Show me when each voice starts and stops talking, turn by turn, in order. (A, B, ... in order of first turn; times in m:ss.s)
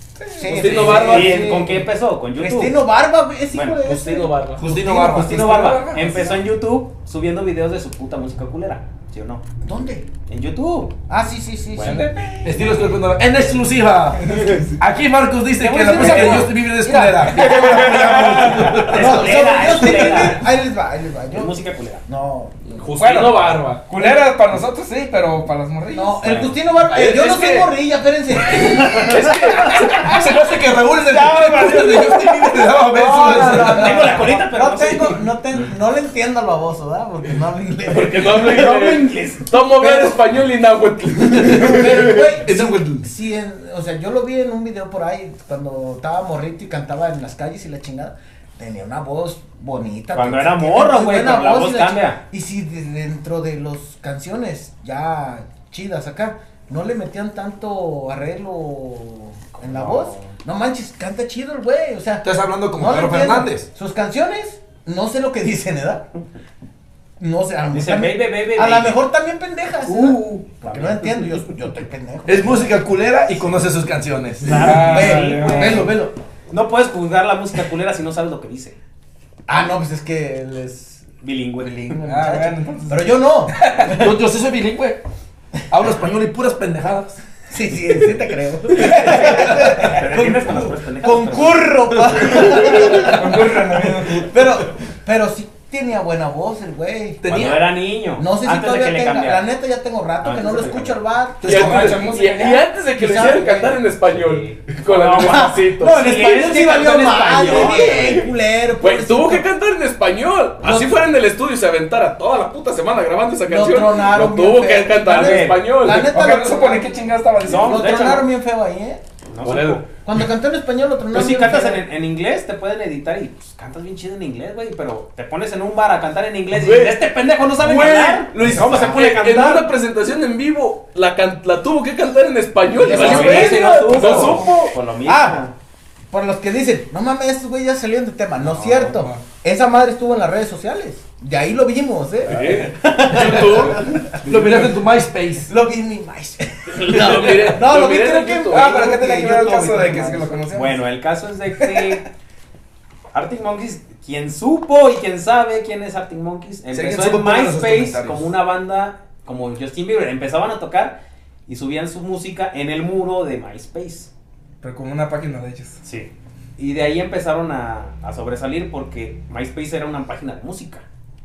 0:00.2-0:01.1 A
0:00.4-0:05.3 B
0:00.5-0:01.5 C
0:00.8-0:02.8 D
0:03.5-0:03.8 D
0:03.8-0:04.6 C
0:04.6-0:05.8 E
0:05.0-0:06.3 A
0:05.1-0:09.4 D
0:06.1-0:06.3 B
0:09.6-0:10.1 B
0:10.3-0:10.9 D
0:11.1-0:12.6 B
0:11.7-0:12.1 D
0:11.8-0:12.3 A
0:12.4-0:19.6 E
0:14.1-0:14.8 A
0:15.6-0:22.9 B
0:15.7-0:16.5 D
0:16.0-0:16.4 A
0:18.8-0:20.5 D
0:21.3-0:22.0 D
0:22.7-0:23.8 C
0:23.0-0:26.5 A
0:25.9-0:30.3 B
0:26.2-0:26.5 D
0:26.9-0:27.7 C
0:28.5-0:30.1 C
0:29.8-0:34.2 E
0:31.1-0:32.1 D
0:31.3-0:38.9 B
0:33.2-0:35.2 D
0:37.9-0:42.4 C
0:38.4-0:39.4 D
0:39.8-0:40.1 B
0:41.2-1:06.1 B
0:42.4-0:43.1 E
0:50.1-0:52.2 D
0:59.5-1:00.3 D
1:02.2-1:03.7 E
1:07.2-1:12.8 B
1:07.7-1:09.0 D
1:09.8-1:10.4 A
1:10.6-1:11.4 D
1:12.2-1:16.1 E
1:14.4-1:15.9 D
1:14.5-1:16.1 B
1:14.5-1:15.9 A
1:16.5-1:18.8 D
1:19.5-1:21.1 B
1:21.2-1:21.9 D
1:21.6-1:24.2 B
1:22.0-1:23.9 A
1:23.9-1:25.0 E
1:25.7-1:27.2 E
1:27.5-1:37.2 B
1:28.8-1:32.5 D
1:32.5-1:34.3 A
1:37.2-1:37.7 E
1:37.2-1:39.4 D
1:38.2-1:41.7 B
1:40.2-1:41.0 D
1:41.4-1:42.0 E
1:41.4-1:46.1 C
1:41.5-1:42.7 A
1:42.9-1:43.8 B
1:44.0-1:48.2 D
1:45.2-1:49.4 B
1:47.3-1:56.1 C
1:50.6-1:51.0 B
1:53.5-1:56.9 B
1:55.0-1:55.6 D
1:55.9-1:58.1 A
1:57.4-1:58.3 D
1:57.5-1:59.0 B
1:59.3-1:59.9 D
1:59.4-1:59.8 C
2:00.0-2:01.8 B
2:01.1-2:09.7 D
2:06.5-2:14.7 C
2:08.4-2:08.9 B
2:12.8-2:14.5 B
2:12.8-2:15.5 D
2:12.9-2:14.5 A
2:15.0-2:15.4 B
2:16.1-2:24.1 B
2:18.5-2:19.0 D
2:18.6-2:19.3 A
2:22.2-2:24.0 C
2:22.3-2:22.7 A
2:24.2-2:24.7 A
2:24.2-2:25.5 E
2:25.5-2:30.4 B
2:26.7-2:28.8 C
2:28.5-2:30.8 A
2:30.5-2:32.0 D
2:31.6-2:32.0 A
2:33.1-2:44.1 D
2:36.7-2:38.3 E
2:44.6-2:45.8 A
2:45.8-2:50.8 D